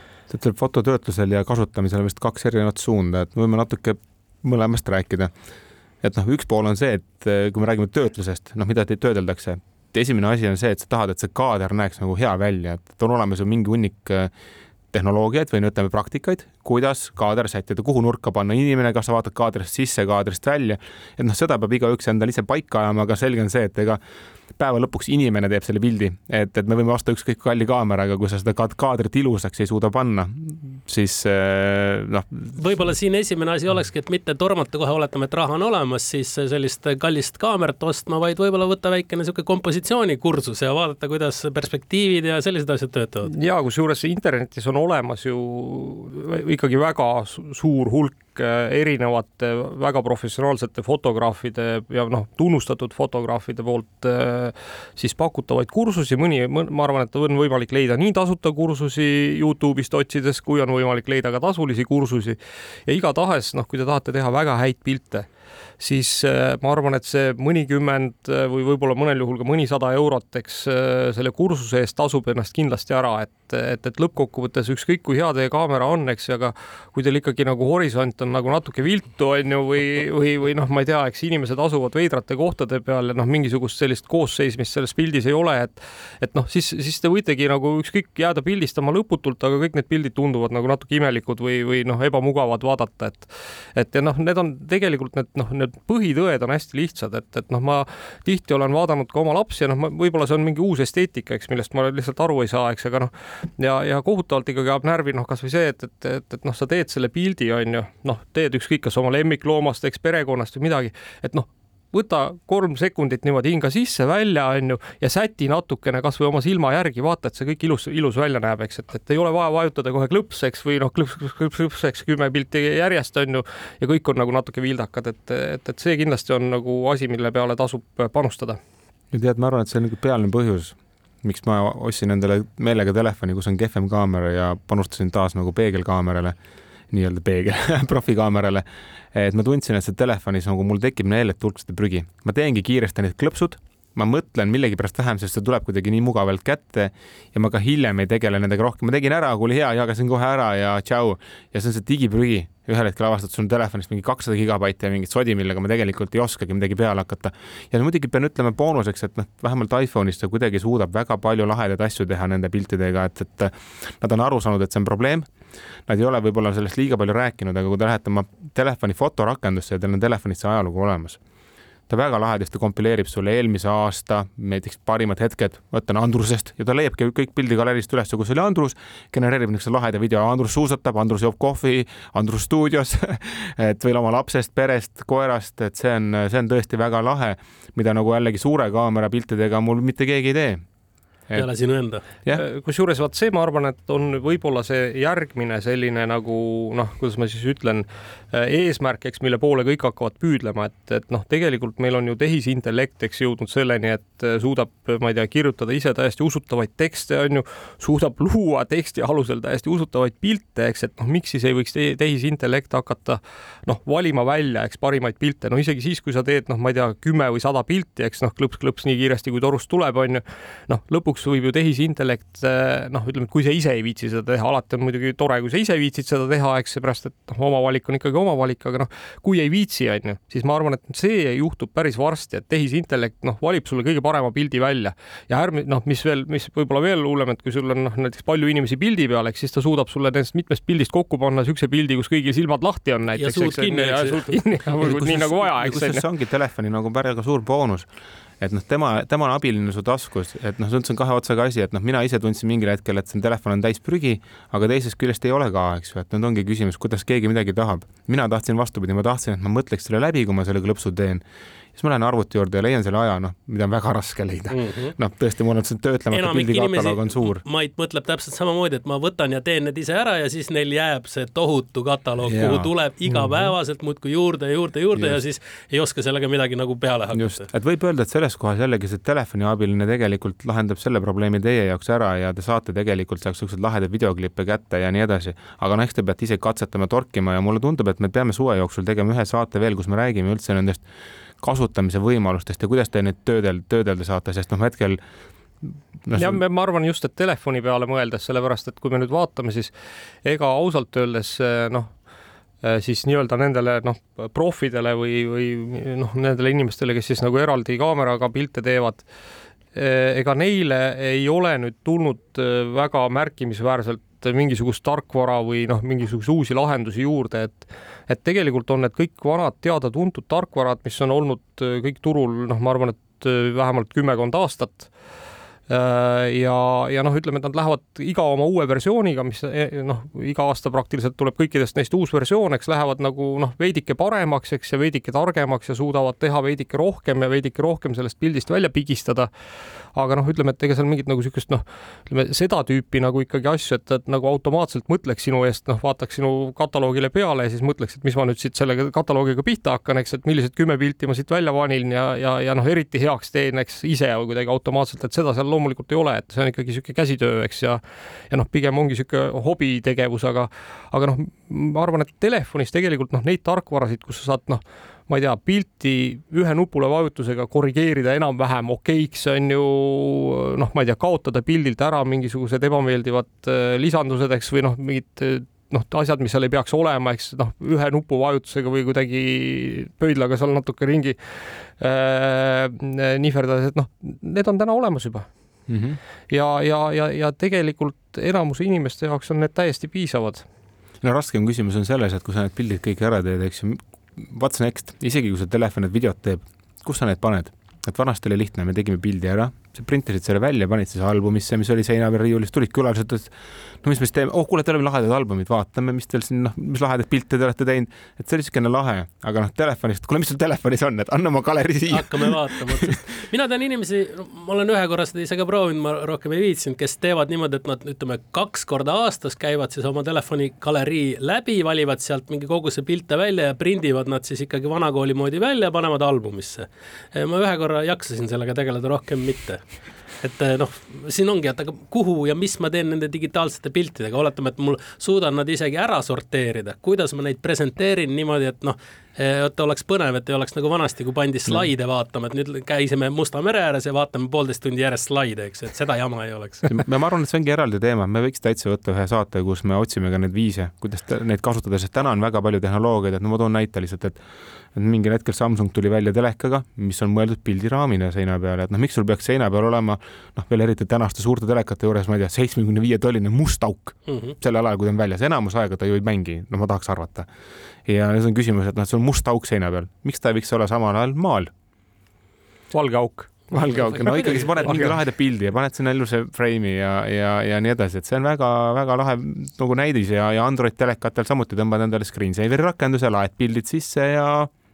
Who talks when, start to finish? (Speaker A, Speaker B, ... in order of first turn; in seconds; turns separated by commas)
Speaker A: 0.3-5.3, Speaker A: 6.0-14.3, Speaker A: 14.9-24.0, Speaker A: 24.6-32.5, Speaker B: 32.5-43.3, Speaker C: 43.3-65.3, Speaker C: 65.8-128.6, Speaker A: 129.1-136.3, Speaker A: 136.9-165.3, Speaker A: 165.9-171.2, Speaker A: 171.9-190.6, Speaker B: 191.3-192.0, Speaker C: 192.3-246.0, Speaker B: 243.2-244.3, Speaker A: 244.8-247.9, Speaker A: 248.4-261.2, Speaker A: 261.8-267.4, Speaker B: 264.5-264.9, Speaker B: 266.1-277.4, Speaker A: 272.2-273.5, Speaker A: 277.1-290.8, Speaker A: 291.4-295.0, Speaker A: 295.6-296.4, Speaker C: 296.1-299.7, Speaker C: 300.2-301.9, Speaker C: 302.6-309.0, Speaker C: 309.7-324.9, Speaker C: 325.7-339.3, Speaker C: 339.9-381.2, Speaker C: 381.8-385.3, Speaker A: 385.7-386.0, Speaker C: 386.3-390.4, Speaker A: 391.0-413.0, Speaker B: 411.9-429.6, Speaker B: 430.2-446.7, Speaker A: 446.6-454.2, Speaker A: 454.7-467.3, Speaker B: 464.1-464.3, Speaker A: 467.9-471.5, Speaker C: 472.7-474.9, Speaker A: 473.5-484.5